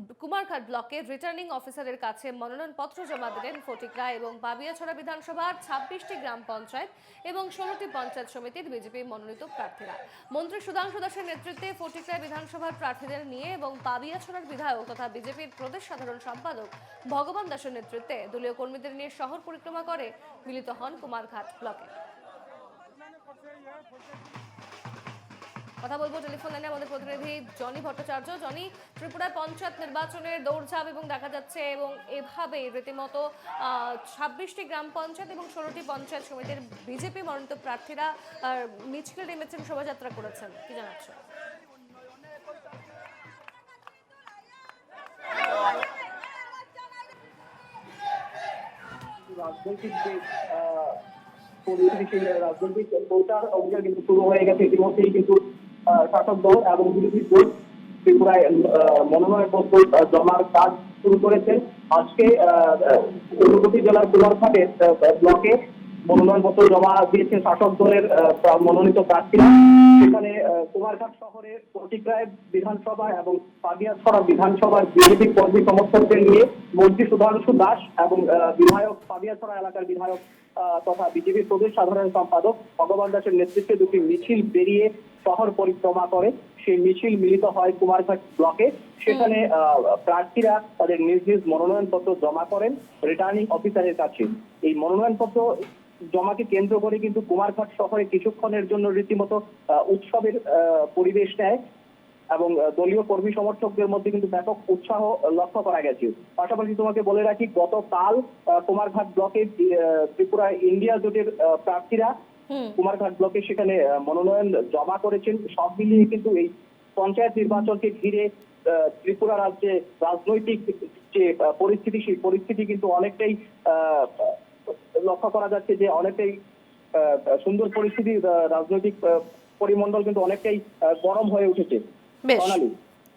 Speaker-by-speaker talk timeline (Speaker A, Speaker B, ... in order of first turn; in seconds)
Speaker A: 0.2-21.9, 25.8-41.2, 112.5-112.8, 132.2-132.6
Speaker B: 49.3-51.0, 51.6-57.5, 58.0-95.6, 96.1-101.6, 102.3-112.1, 112.8-126.4, 126.9-131.8, 132.3-132.7